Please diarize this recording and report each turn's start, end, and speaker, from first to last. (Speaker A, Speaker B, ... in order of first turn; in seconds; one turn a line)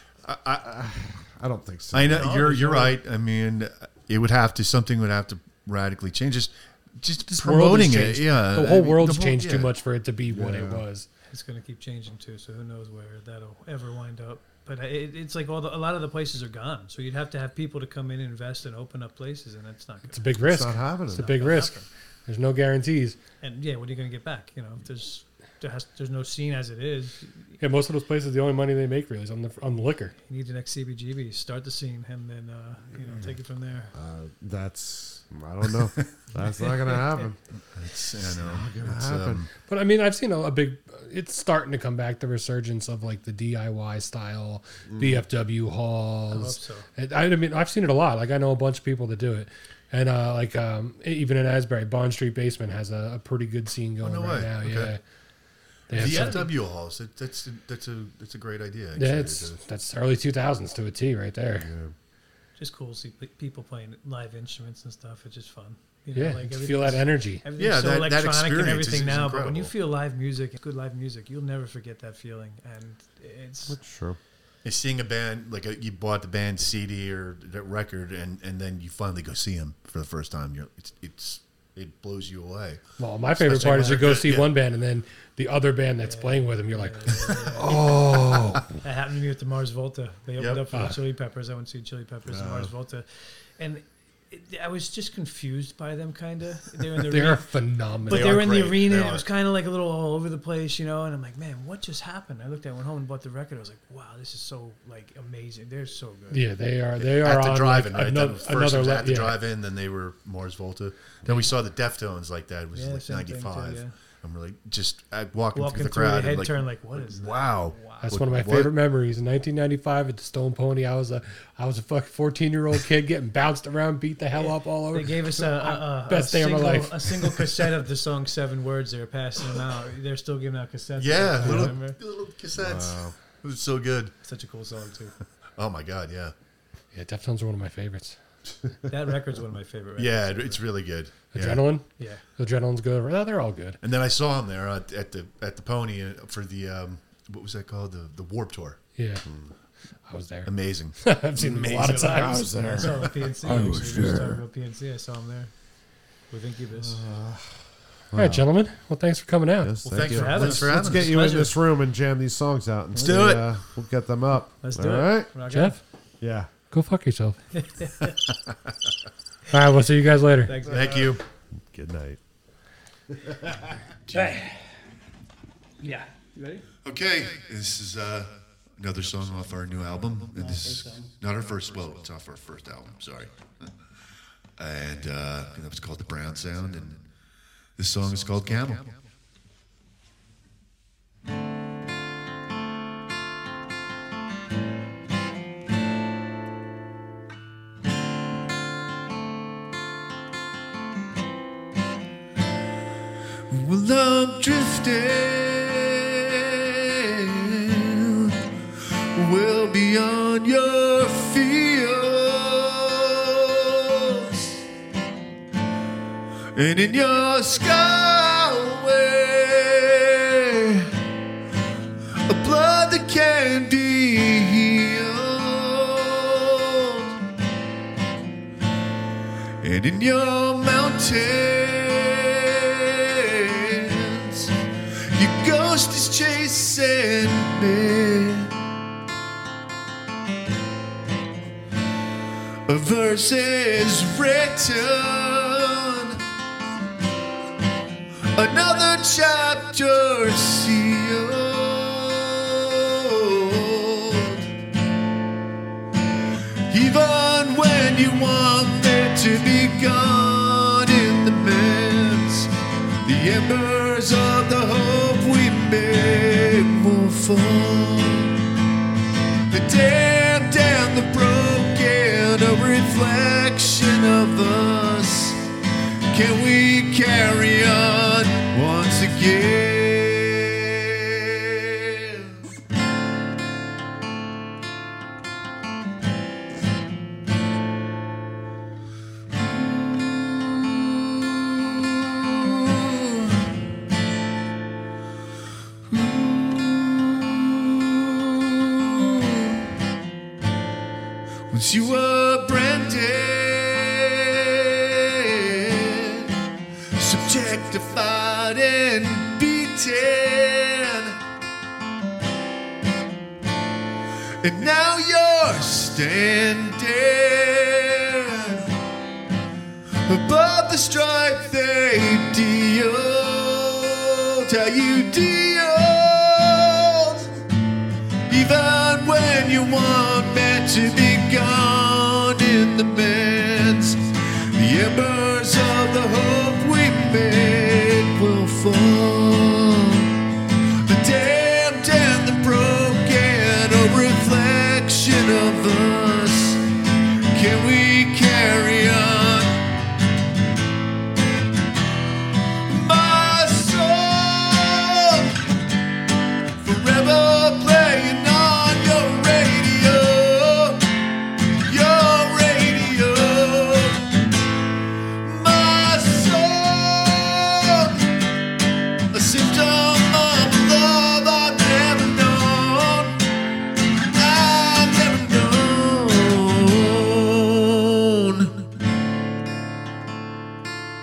Speaker A: 0.2-0.6
Speaker B: 0.6-2.3
Speaker A: 1.9-9.7
Speaker C: 2.1-3.0
Speaker D: 7.3-11.1
Speaker B: 10.3-10.8
Speaker C: 11.3-20.3
Speaker D: 20.1-23.2
Speaker B: 20.4-21.4
Speaker C: 21.1-21.9
Speaker C: 23.4-27.6
Speaker D: 27.6-30.1
Speaker C: 30.2-33.9
Speaker B: 33.9-37.4
Speaker A: 37.7-39.5
Speaker B: 38.4-39.5
Speaker D: 39.6-55.0
Speaker B: 44.9-45.2
Speaker C: 46.3-46.9
Speaker A: 54.0-55.0
Speaker D: 55.9-56.5
Speaker C: 55.9-56.5
Speaker A: 56.0-59.6
Speaker D: 59.0-61.7
Speaker B: 61.6-61.9
Speaker C: 62.6-73.8
Speaker D: 66.2-67.5
Speaker A: 67.6-69.7
Speaker B: 73.7-74.2
Speaker A: 74.7-82.8
Speaker D: 83.0-88.7
Speaker A: 83.4-84.5
Speaker C: 86.0-87.9
Speaker C: 88.7-97.5
Speaker A: 90.4-90.6
Speaker D: 90.7-91.0
Speaker D: 97.0-98.5
Speaker A: 98.1-99.2
Speaker C: 98.1-106.5
Speaker D: 106.3-109.4
Speaker A: 107.0-118.7
Speaker C: 112.7-114.0
Speaker C: 115.5-118.2
Speaker D: 118.0-127.4
Speaker C: 124.3-132.0
Speaker A: 131.0-134.1
Speaker B: 132.6-133.1
Speaker C: 134.2-135.1
Speaker A: 135.6-136.3
Speaker D: 136.9-138.2
Speaker C: 138.9-140.6
Speaker A: 140.0-141.7
Speaker D: 141.3-143.8
Speaker A: 143.8-148.8
Speaker D: 149.0-149.3
Speaker B: 149.3-149.5
Speaker D: 150.1-153.0
Speaker A: 150.5-154.2
Speaker B: 152.2-152.9
Speaker C: 152.2-155.5
Speaker B: 153.4-154.2
Speaker C: 156.3-157.0
Speaker B: 156.8-158.5
Speaker D: 158.2-159.8
Speaker B: 159.6-165.3
Speaker A: 159.8-161.2
Speaker C: 159.9-161.6
Speaker A: 163.0-163.5
Speaker C: 163.0-163.3
Speaker C: 164.6-165.8
Speaker D: 165.5-165.8
Speaker B: 166.2-166.5
Speaker D: 166.7-167.4
Speaker C: 167.5-168.2
Speaker D: 169.5-170.6
Speaker C: 170.5-171.2
Speaker A: 170.7-171.2
Speaker B: 171.7-172.2
Speaker B: 173.1-173.7
Speaker A: 174.1-174.4
Speaker C: 174.1-174.7
Speaker C: 175.8-176.7
Speaker A: 176.8-183.5
Speaker C: 180.3-181.1
Speaker A: 184.6-187.0
Speaker A: 187.8-189.0
Speaker A: 203.5-208.4
Speaker A: 209.2-214.7
Speaker A: 216.6-220.9
Speaker A: 222.3-227.2
Speaker A: 229.6-234.5
Speaker A: 235.2-238.5
Speaker A: 242.7-246.2
Speaker A: 248.3-254.5
Speaker A: 256.7-262.5
Speaker A: 263.0-268.3
Speaker A: 269.5-275.4
Speaker A: 276.1-282.3
Speaker A: 289.6-293.5
Speaker A: 295.9-299.7
Speaker A: 301.5-306.3
Speaker A: 307.0-311.2
Speaker A: 314.4-318.7
Speaker A: 320.1-327.4
Speaker A: 328.3-340.1
Speaker A: 340.9-346.6
Speaker A: 347.3-349.6
Speaker A: 352.7-355.4
Speaker A: 356.6-360.9
Speaker A: 361.7-364.1
Speaker A: 365.2-368.1
Speaker A: 369.1-373.2
Speaker A: 374.1-378.6